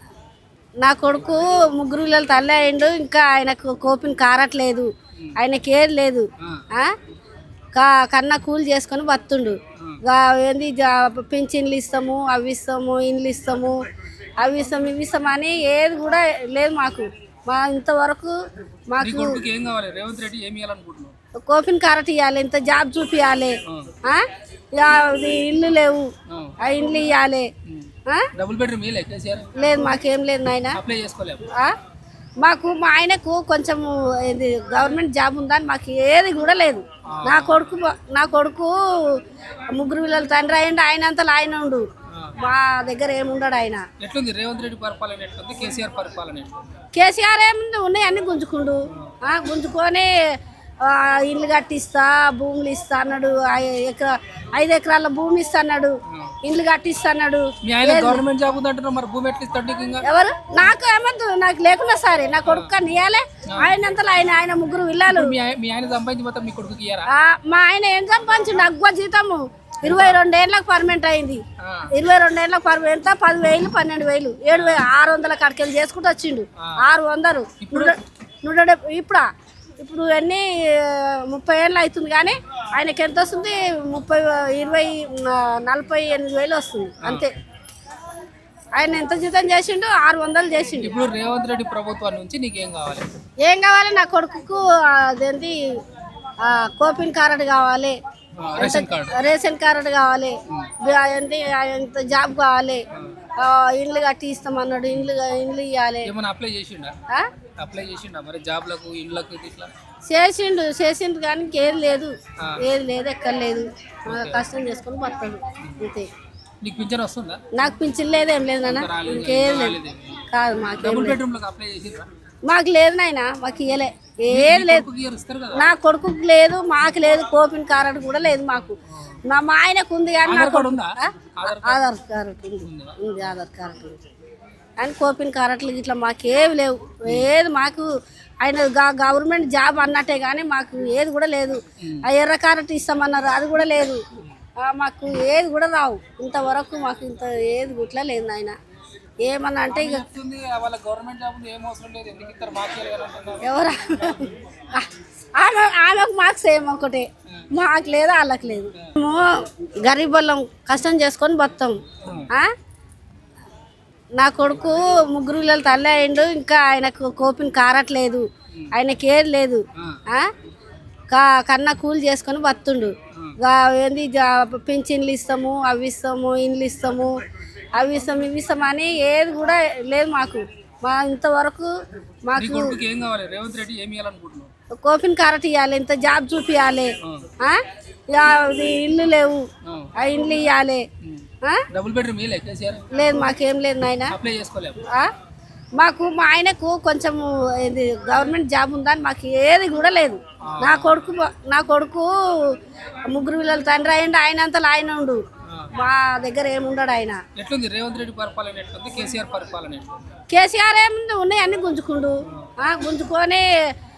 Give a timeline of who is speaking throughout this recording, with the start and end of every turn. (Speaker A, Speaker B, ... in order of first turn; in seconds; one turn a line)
Speaker A: 0.8-6.9
Speaker B: 6.4-6.7
Speaker A: 7.8-13.8
Speaker A: 14.4-18.4
Speaker A: 18.9-19.4
Speaker B: 19.0-21.1
Speaker A: 21.4-24.2
Speaker B: 23.7-23.9
Speaker A: 24.8-27.5
Speaker B: 26.3-26.6
Speaker B: 27.6-29.5
Speaker A: 29.6-30.8
Speaker B: 30.7-31.4
Speaker A: 32.4-39.2
Speaker B: 37.1-37.8
Speaker A: 39.7-41.9
Speaker A: 42.4-43.9
Speaker B: 44.0-46.6
Speaker A: 46.9-50.1
Speaker A: 50.8-58.2
Speaker B: 56.1-56.4
Speaker B: 57.6-60.0
Speaker A: 60.0-65.3
Speaker B: 62.5-62.7
Speaker B: 63.5-63.8
Speaker B: 65.1-67.1
Speaker A: 67.1-79.3
Speaker B: 69.8-70.2
Speaker B: 71.6-71.9
Speaker B: 74.5-74.8
Speaker B: 77.6-78.0
Speaker A: 79.8-87.3
Speaker B: 87.0-87.3
Speaker A: 88.8-90.9
Speaker B: 90.8-93.1
Speaker A: 93.5-95.6
Speaker A: 96.4-98.0
Speaker B: 98.4-99.2
Speaker A: 98.6-102.8
Speaker A: 103.4-106.1
Speaker B: 106.1-107.0
Speaker B: 107.6-109.7
Speaker A: 110.1-116.1
Speaker B: 114.1-114.5
Speaker B: 115.6-115.9
Speaker B: 116.6-117.4
Speaker A: 117.5-119.8
Speaker B: 118.6-120.2
Speaker A: 120.3-121.2
Speaker B: 120.8-122.1
Speaker A: 122.5-124.9
Speaker B: 124.3-125.7
Speaker A: 125.5-128.8
Speaker A: 129.3-134.0
Speaker B: 130.2-131.8
Speaker B: 132.6-133.0
Speaker A: 134.8-137.9
Speaker B: 137.1-137.3
Speaker A: 138.4-144.0
Speaker B: 141.8-142.1
Speaker A: 144.6-148.6
Speaker A: 149.2-150.1
Speaker B: 149.7-154.3
Speaker A: 153.4-162.5
Speaker B: 162.0-162.3
Speaker A: 164.2-170.3
Speaker A: 171.1-177.1
Speaker A: 177.8-181.7
Speaker A: 182.3-182.8
Speaker B: 182.4-184.5
Speaker A: 184.8-187.6
Speaker B: 187.0-187.3
Speaker A: 188.1-190.8
Speaker B: 189.6-189.9
Speaker B: 191.0-192.9
Speaker A: 192.9-194.2
Speaker B: 194.1-194.8
Speaker A: 194.8-195.1
Speaker A: 195.8-202.6
Speaker B: 200.5-201.1
Speaker A: 203.1-205.2
Speaker B: 205.4-205.7
Speaker A: 205.8-207.2
Speaker B: 207.4-210.0
Speaker A: 210.3-213.5